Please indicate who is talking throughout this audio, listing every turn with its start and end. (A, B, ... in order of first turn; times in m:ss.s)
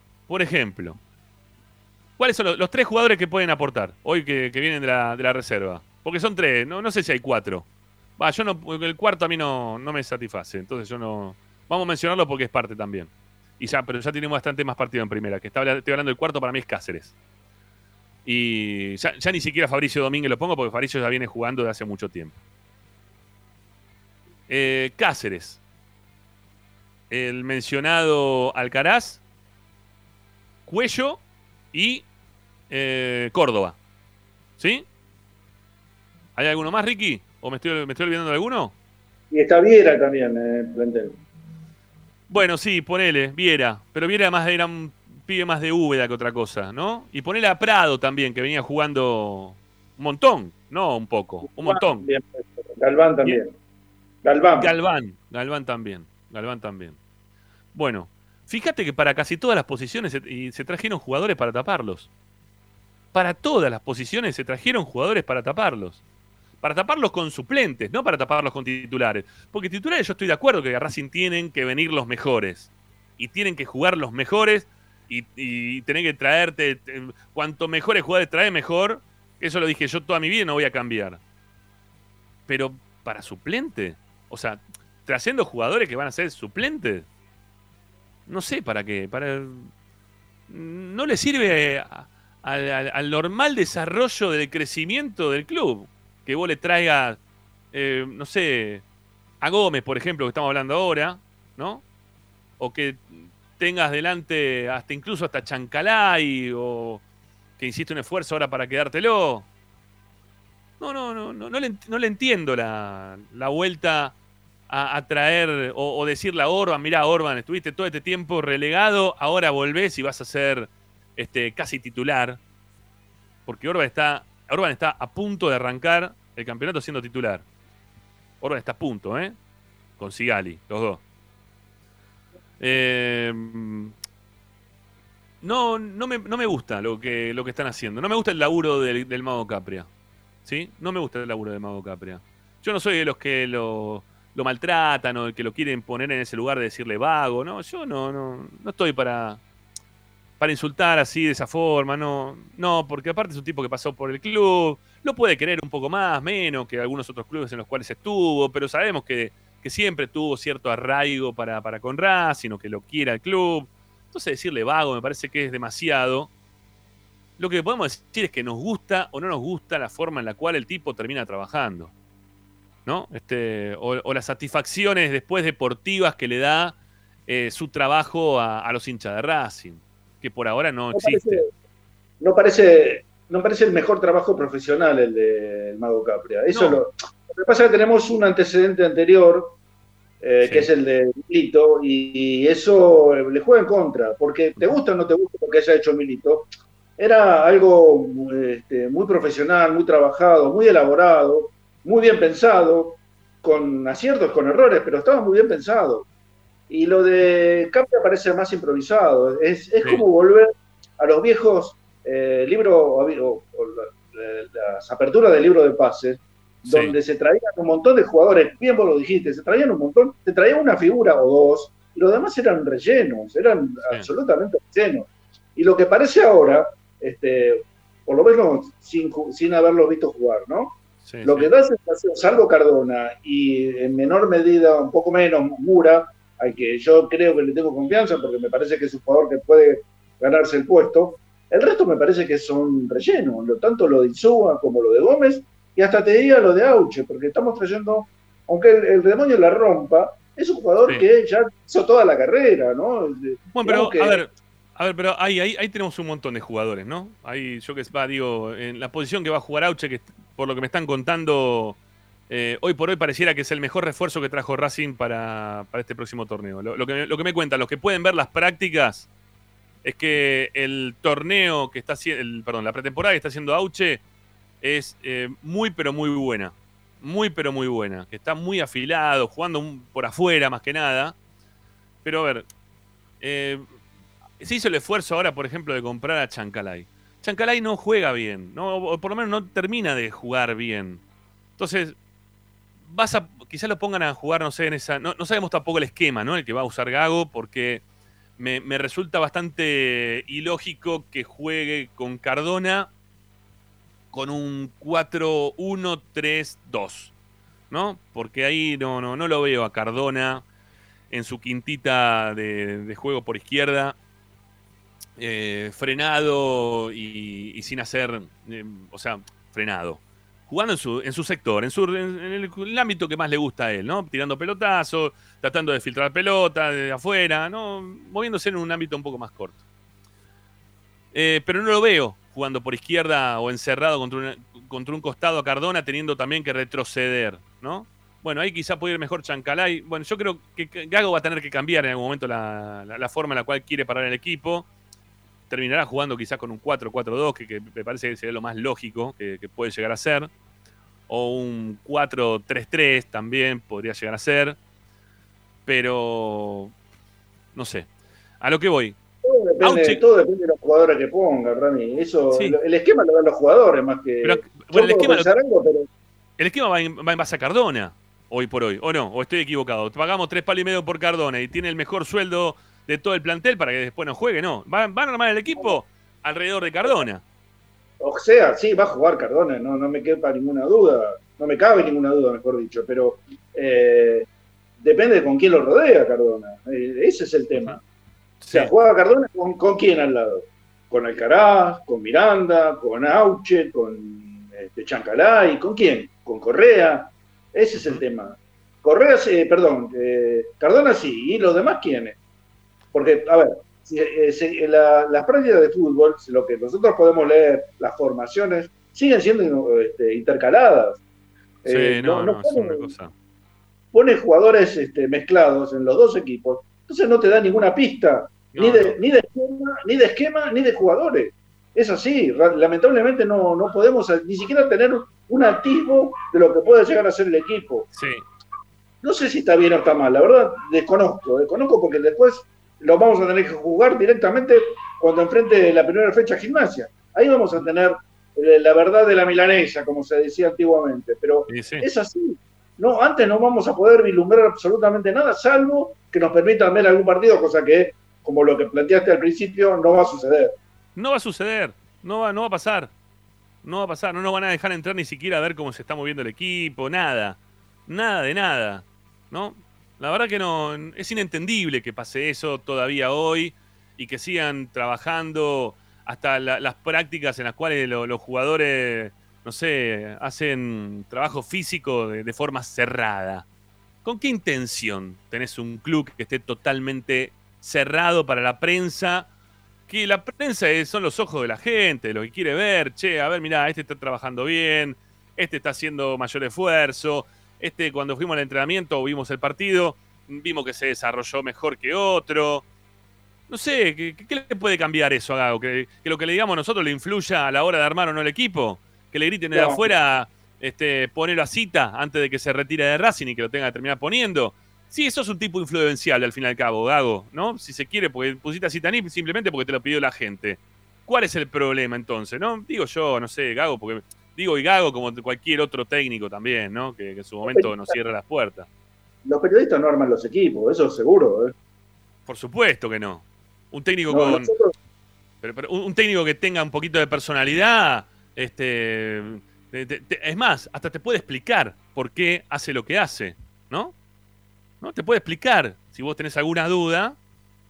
0:00.3-0:01.0 A
0:02.2-0:07.6 A
0:08.2-0:17.1 A
0:18.2-0:22.4 A
0:24.5-0:25.6 A
0:27.1-0:29.2 A
0:30.7-0:31.2 A
0:31.7-0:32.0 A
0:32.7-0:33.8 A
0:34.6-0:34.8 A
0:36.4-0:38.7 A
0:39.3-0:41.2 B
0:42.3-0:52.0 A
0:51.5-0:53.5 B
0:54.2-0:54.7 B
0:54.6-0:57.0 A
0:57.7-1:02.1 A
1:03.1-1:06.0 A
1:06.6-1:21.2 A
1:22.5-1:27.1 A
1:28.3-1:29.7 A
1:30.5-1:37.2 A
1:37.7-1:38.8 A
1:39.4-1:41.8 A
1:42.6-1:47.0 A
1:47.6-1:49.5 A
1:50.8-1:54.1 A
1:54.7-2:02.4 A
2:03.4-2:07.4 A
2:08.4-2:09.4 A
2:10.0-2:11.0 A
2:12.6-2:13.9 A
2:15.4-2:19.9 A
2:20.4-2:29.4 A
2:30.4-2:46.3 A
2:47.4-2:51.9 A
2:52.8-2:56.8 A
2:57.3-3:01.4 A
3:00.9-3:01.5 B
3:02.2-3:09.6 B
3:06.5-3:06.8 A
3:10.2-3:26.0 B
3:10.4-3:10.7 A
3:26.7-4:14.2 B
3:36.6-3:36.9 A
3:51.0-3:51.5 A
4:13.5-4:21.8 A
4:22.3-4:29.1 A
4:29.8-4:34.0 A
4:34.6-4:41.1 A
4:42.0-4:42.4 A
4:43.2-4:43.6 A
4:44.4-4:51.0 A
4:51.6-4:52.0 A
4:52.9-4:57.8 A
4:58.4-5:02.9 A
5:04.1-5:07.1 A
5:07.7-5:10.4 A
5:11.1-5:14.0 A
5:15.2-5:29.6 A
5:31.1-5:44.7 A
5:45.5-5:50.3 A
5:51.1-5:54.6 A
5:55.6-5:56.7 A
5:57.5-5:57.9 A
5:58.4-5:59.0 A
5:59.2-6:05.9 B
5:59.6-6:00.0 A
6:02.3-6:02.6 A
6:04.2-6:05.3 A
6:06.4-6:17.2 A
6:18.0-6:24.3 B
6:24.8-6:27.8 B
6:28.4-6:28.7 A
6:28.5-6:42.2 B
6:37.7-6:38.0 A
6:42.9-6:51.0 B
6:51.6-6:52.9 B
6:51.7-6:53.1 A
6:53.9-7:07.9 B
6:58.5-6:59.0 A
7:07.9-7:08.2 A
7:09.0-7:30.5 B
7:21.5-7:21.8 A
7:31.0-7:32.9 A
7:33.6-7:53.4 A
7:54.0-7:59.3 A
7:59.9-8:12.6 A
8:13.5-8:38.7 A
8:19.5-8:19.9 B
8:37.4-8:37.7 B
8:39.2-8:41.5 B
8:42.3-8:44.5 A
8:44.1-8:44.7 B
8:45.4-8:53.9 A
8:54.8-8:57.2 A